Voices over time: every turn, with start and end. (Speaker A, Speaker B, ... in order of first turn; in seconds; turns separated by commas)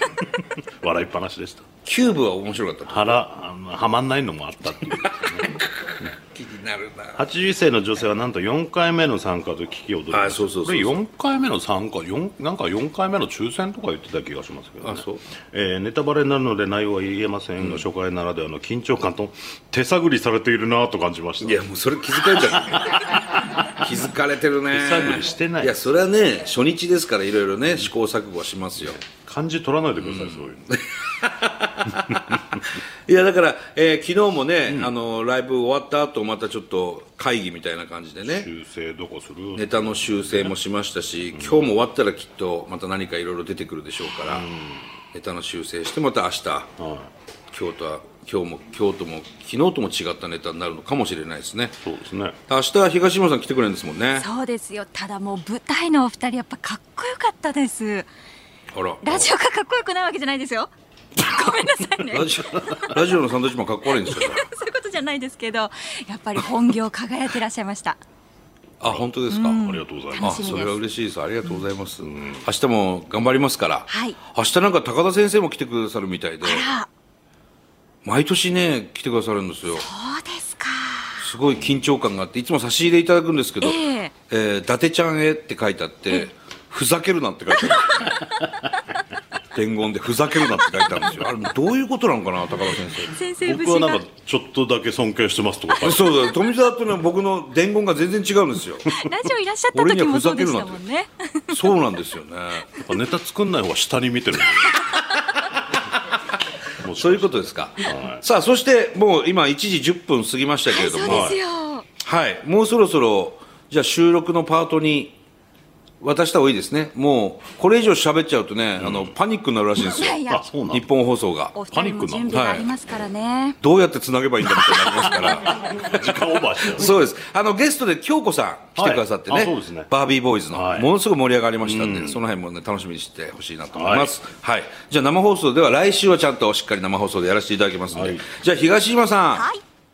Speaker A: 0.2-1.7, Speaker B: 1.9-3.2, Speaker A: 2.9-5.5, Speaker B: 5.4-7.2, Speaker A: 7.2-21.6, Speaker B: 10.1-11.0, Speaker B: 14.8-15.2, Speaker B: 17.6-17.9, Speaker B: 21.4-29.0, Speaker A: 24.7-25.8, Speaker A: 28.8-30.6, Speaker B: 30.0-38.5, Speaker A: 38.2-40.5, Speaker B: 39.6-44.5, Speaker A: 44.3-44.9, Speaker B: 45.1-46.7, Speaker A: 46.8-47.1, Speaker B: 47.5-51.8, Speaker A: 51.8-52.4, Speaker B: 52.5-54.3, Speaker C: 54.1-58.1, Speaker B: 58.7-59.3, Speaker C: 59.0-63.0, Speaker B: 62.1-64.4, Speaker C: 64.0-68.0, Speaker B: 68.8-69.6, Speaker C: 69.3-70.8, Speaker A: 69.6-70.7, Speaker B: 70.2-76.7, Speaker C: 73.9-74.2, Speaker C: 76.4-76.9, Speaker B: 78.0-79.9, Speaker C: 79.7-81.2, Speaker B: 81.2-88.3, Speaker C: 83.6-84.1, Speaker B: 89.5-93.2, Speaker C: 93.0-94.0, Speaker A: 93.4-96.3, Speaker B: 95.8-98.9, Speaker C: 98.9-101.7, Speaker B: 99.7-100.8, Speaker B: 101.5-102.7, Speaker A: 102.8-105.0, Speaker C: 104.7-105.2, Speaker A: 106.8-108.2, Speaker B: 106.9-111.4, Speaker C: 110.7-111.9, Speaker A: 111.0-111.4, Speaker B: 112.0-115.2, Speaker B: 116.0-121.6, Speaker A: 118.8-119.1, Speaker C: 119.8-120.5, Speaker A: 120.3-120.9, Speaker C: 121.5-123.6, Speaker A: 121.7-122.4, Speaker B: 122.3-122.7, Speaker B: 123.6-139.5, Speaker A: 125.2-127.1, Speaker A: 128.8-129.9, Speaker A: 130.5-130.9, Speaker A: 131.6-132.2, Speaker A: 133.7-134.1, Speaker A: 137.9-138.3, Speaker C: 139.3-139.6